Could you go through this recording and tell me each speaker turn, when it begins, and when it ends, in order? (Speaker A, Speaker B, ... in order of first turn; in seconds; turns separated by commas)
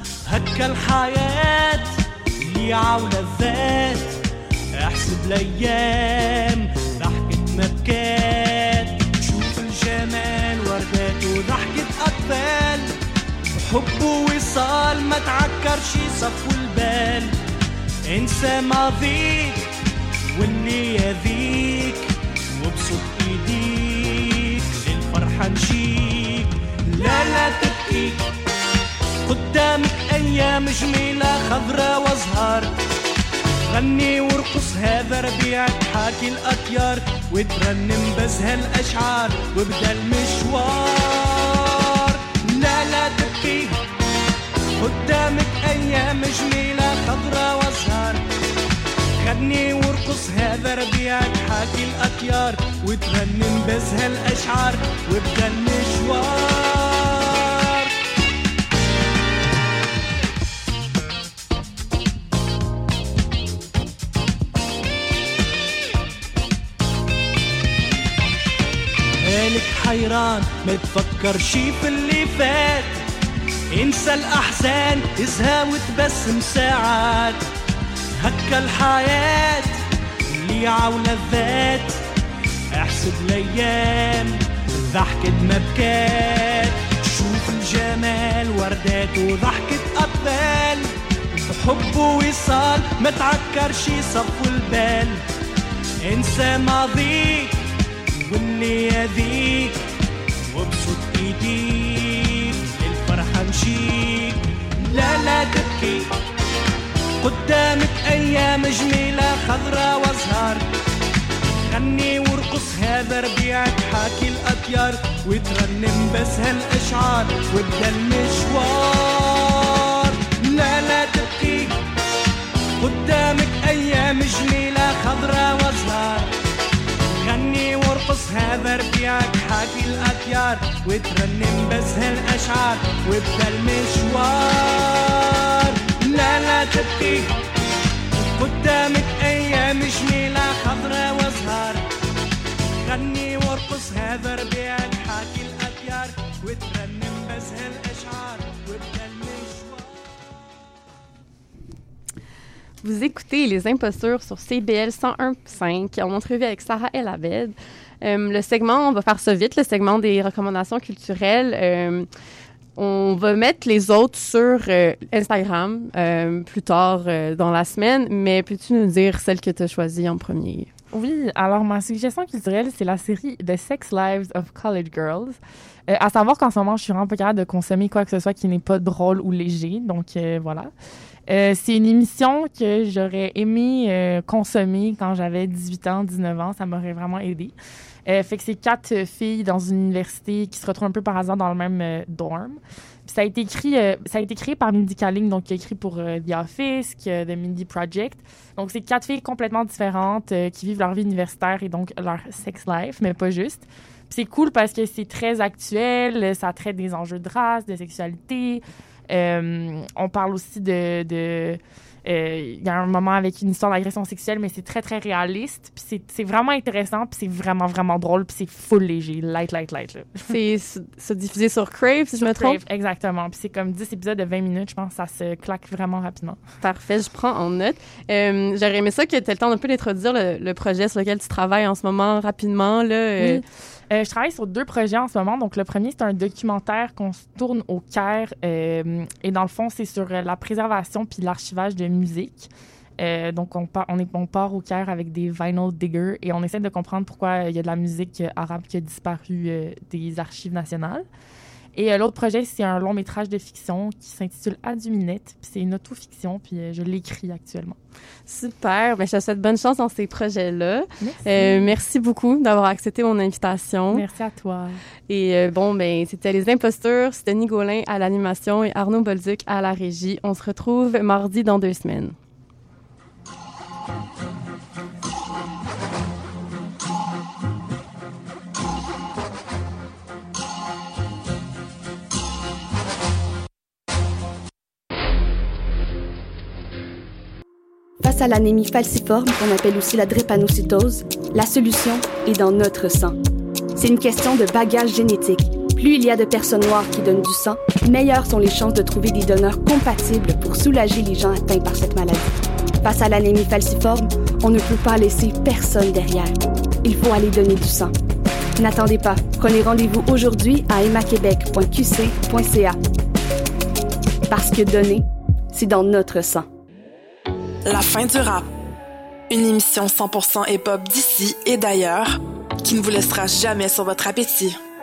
Speaker A: 0.3-1.9, Speaker A: 2.4-4.2, Speaker A: 4.8-12.9, Speaker A: 13.6-17.3, Speaker A: 18.1-19.7, Speaker A: 20.4-28.3, Speaker A: 29.3-32.8, Speaker A: 33.7-43.8, Speaker A: 44.8-48.2, Speaker A: 49.2-57.9, Speaker A: 69.2-73.0, Speaker A: 73.7-77.4, Speaker A: 78.2-79.8, Speaker A: 80.3-82.0, Speaker A: 82.7-95.2, Speaker A: 96.0-97.6, Speaker A: 98.2-99.8, Speaker A: 100.5-106.1, Speaker A: 107.2-110.7, Speaker A: 111.7-121.8, Speaker A: 122.8-126.3, Speaker A: 127.1-137.3, Speaker A: 138.2-141.8, Speaker A: 142.8-150.0, Speaker B: 152.8-162.1, Speaker B: 162.8-170.7, Speaker C: 170.9-180.7, Speaker C: 181.3-187.6, Speaker C: 188.1-220.3, Speaker B: 220.3-222.6, Speaker C: 222.2-226.4, Speaker B: 226.6-233.4, Speaker C: 233.2-251.1, Speaker C: 251.8-257.8, Speaker B: 258.3-264.1, Speaker C: 261.0-261.8, Speaker C: 263.9-264.8, Speaker B: 265.1-272.1, Speaker D: 288.0-293.2, Speaker D: 293.8-302.3, Speaker D: 302.8-307.9, Speaker D: 308.6-312.8, Speaker D: 314.3-316.5, Speaker E: 317.6-318.5, Speaker E: 319.3-324.6